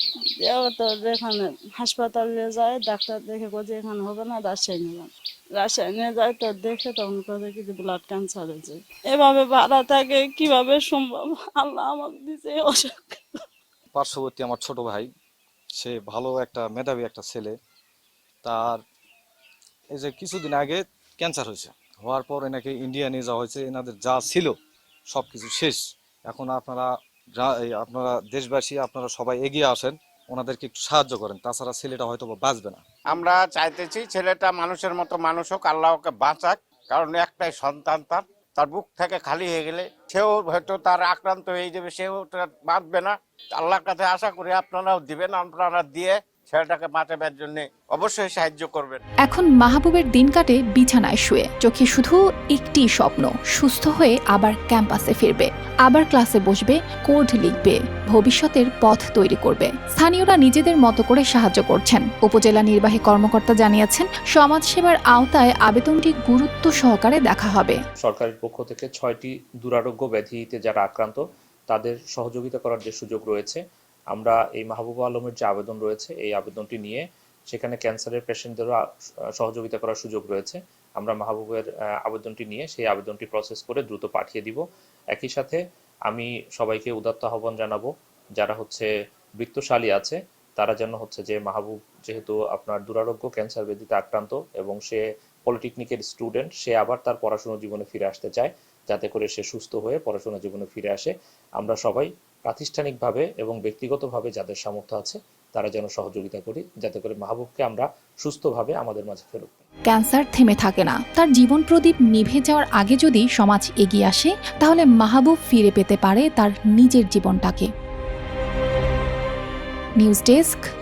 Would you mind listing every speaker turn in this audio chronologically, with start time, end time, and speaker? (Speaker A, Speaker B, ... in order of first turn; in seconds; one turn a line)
Speaker A: 0.4-13.4
Speaker B: 13.9-15.1
Speaker B: 15.7-17.6
Speaker B: 18.4-18.8
Speaker B: 19.9-24.6
Speaker B: 25.1-32.8
Speaker C: 33.1-49.0
Speaker D: 49.2-67.8
Speaker E: 68.0-73.6
Speaker E: 74.1-78.8
Speaker E: 79.4-84.6
Speaker E: 85.1-88.9
Speaker E: 89.4-109.6
Speaker D: 109.9-117.7
Speaker D: 120.0-120.6